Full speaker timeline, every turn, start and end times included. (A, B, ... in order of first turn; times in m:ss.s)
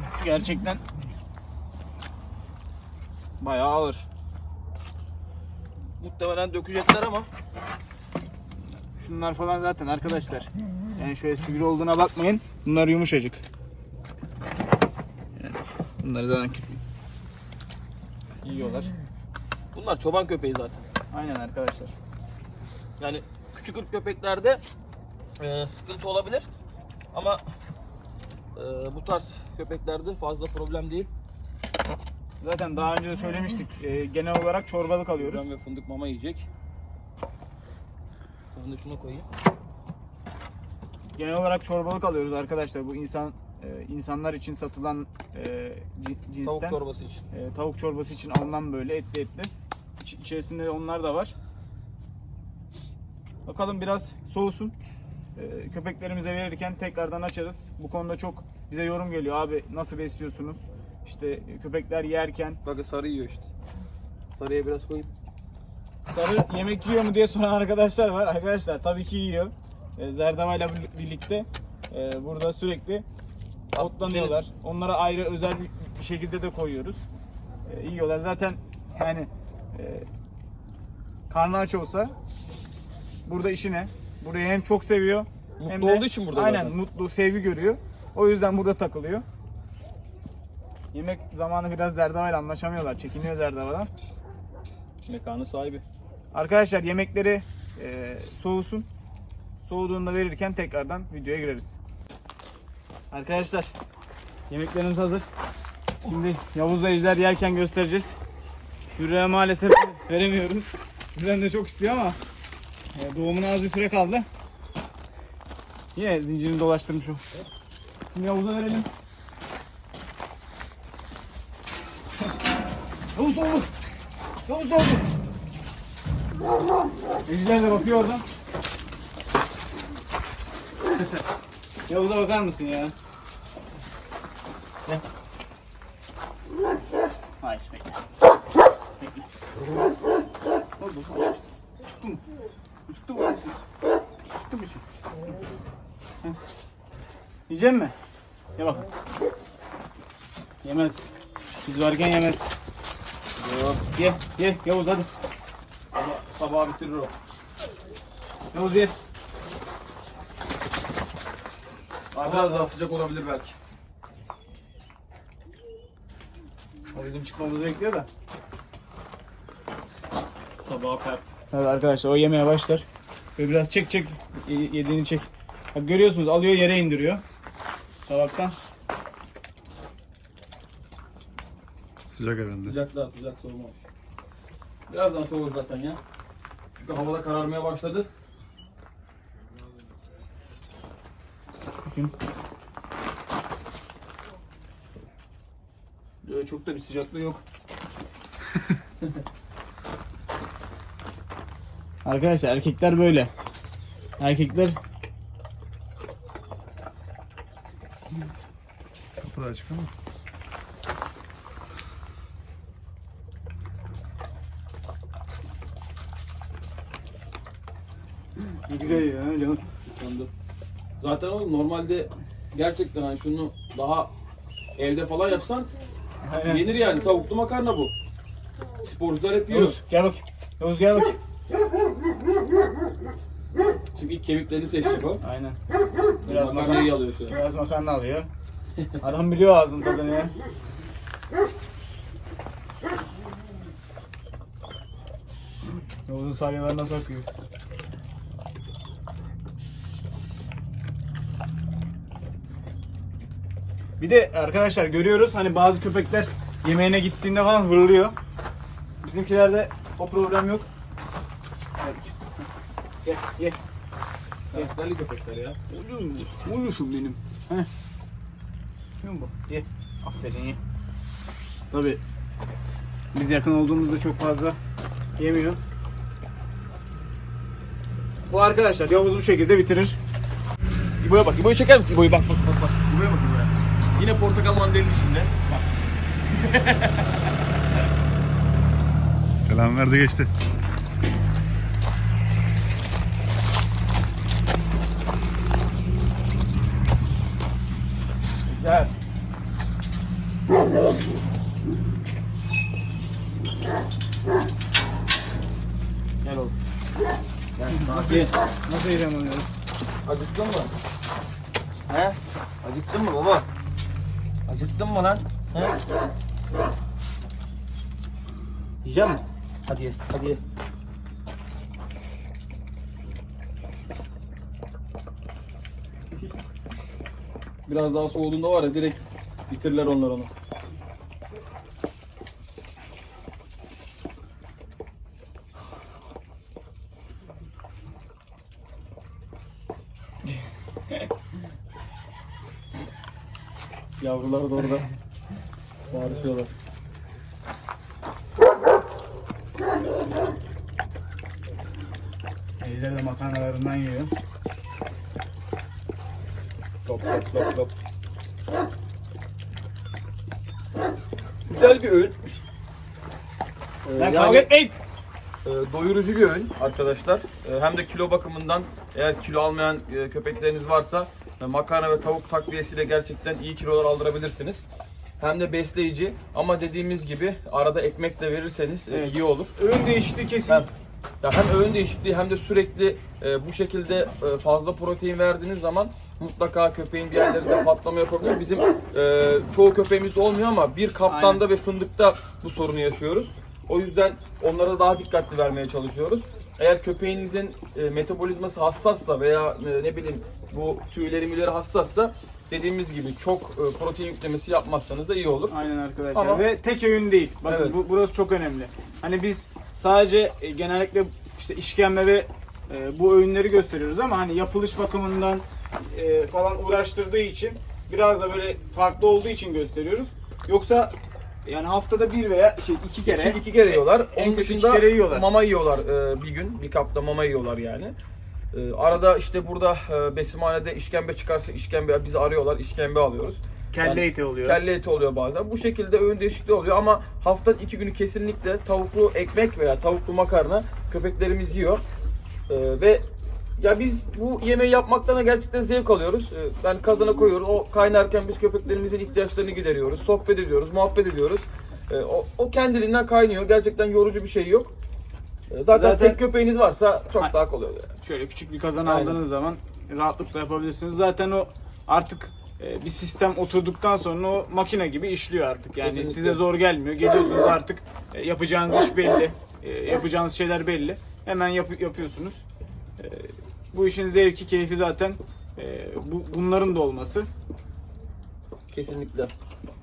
0:00.2-0:00.8 A
0:03.4-0:04.1 A
0:06.0-0:07.3 B
0:09.0-0:13.4 A
0:15.4-0:16.8 A
0:18.4-0:18.9 A
0:19.7-0:20.9 B
0:21.1-0:21.9 A
0:23.0-0:24.6 B
0:25.4-0:26.5 B
0:27.1-0:27.4 B
0:28.5-0:31.1 B
0:32.4-0:35.4 A
0:35.1-0:36.5 B
0:38.5-0:39.2 B
0:41.1-0:46.8 A
0:46.4-0:47.2 B
0:47.3-0:51.3 A
0:53.4-0:54.7 A
0:55.4-1:02.6 A
1:02.6-1:03.4 B
1:04.3-1:05.1 B
1:06.1-1:13.0 A
1:13.7-1:14.4 B
1:13.8-1:17.0 A
1:17.7-1:20.1 A
1:21.3-1:22.1 A
1:23.2-1:29.2 A
1:25.6-1:26.8 B
1:30.9-1:33.9 A
1:35.1-1:35.8 B
1:36.3-1:38.9 A
1:39.6-1:41.8 A
1:43.1-1:43.7 A
1:44.5-1:45.3 A
1:46.0-1:48.2 A
1:49.0-1:52.2 A
1:52.9-1:54.3 A
1:55.9-1:57.2 A
1:58.1-1:58.9 A
2:03.1-2:03.7 A
2:04.5-2:05.1 A
2:07.2-2:08.2 A
2:11.9-2:12.9 A
2:17.4-2:18.0 A
2:19.0-2:19.3 A
2:20.8-2:21.3 A
2:22.9-2:23.6 A
2:24.3-2:24.8 A
2:27.5-2:27.9 A
2:28.6-2:28.8 A
2:30.6-2:31.0 A
2:31.6-2:32.5 A
2:33.4-2:33.8 B
2:33.9-2:35.1 A
2:35.9-2:37.1 B
2:38.5-2:38.9 A
2:42.1-2:43.6 B
2:42.2-2:42.7 A
2:46.9-2:48.1 A
2:50.6-2:51.3 B
2:51.5-2:52.8 A
2:53.4-2:57.2 A
2:58.0-2:58.6 A
3:02.1-3:02.8 C
3:02.6-3:03.8 B
3:04.9-3:06.0 B
3:06.8-3:08.1 B
3:16.2-3:17.4 A
3:22.0-3:23.3 A
3:24.2-3:24.8 A
3:29.2-3:29.9 C
3:38.4-3:39.6 A
3:39.9-3:40.3 B
3:41.0-3:44.1 B
3:44.8-3:45.7 B
3:46.2-3:46.6 A
3:46.4-3:47.9 B
3:48.8-3:49.8 B
3:49.5-3:51.2 A
3:53.9-3:55.2 B
3:55.2-3:55.6 A
3:56.2-3:57.4 B
3:56.2-3:58.3 A
3:59.0-4:00.3 A
4:06.0-4:07.3 A
4:14.0-4:18.1 A
4:19.0-4:20.7 A
4:21.8-4:22.2 A
4:23.0-4:23.6 A
4:24.5-4:25.6 B
4:25.7-4:27.7 A
4:29.0-4:30.6 A
4:31.7-4:32.0 A
4:33.1-4:34.6 A
4:35.2-4:35.6 A
4:38.3-4:40.0 A
4:41.0-4:45.6 B
4:46.3-4:47.1 B
4:49.4-4:50.3 C
4:58.4-4:58.9 B
5:06.2-5:06.5 B
5:07.6-5:08.3 B
5:07.7-5:09.5 A
5:10.0-5:10.7 B
5:11.9-5:13.4 B
5:14.5-5:15.8 B
5:18.8-5:20.4 B
5:27.7-5:30.3 B
5:44.0-5:44.8 B
5:45.9-5:46.5 B
5:52.6-5:54.1 A
5:56.8-5:57.7 B
6:01.5-6:02.3 B
6:03.8-6:04.5 B
6:04.0-6:04.8 A
6:05.4-6:14.7 B
6:15.2-6:19.5 B
6:18.9-6:20.6 A
6:21.2-6:45.5 B
6:31.1-6:31.4 A
6:45.5-7:00.9 A
6:46.1-6:46.4 B
6:47.4-6:47.8 B
7:01.4-7:05.3 A
7:03.0-7:07.9 B
7:08.5-7:21.8 B
7:13.7-7:14.6 A
7:22.5-7:34.7 B
7:35.5-7:37.9 B
7:35.7-7:36.2 A
7:38.0-7:52.4 A
7:38.8-7:39.2 B
7:45.8-7:46.4 B
7:53.0-7:57.3 A
7:58.7-7:59.3 B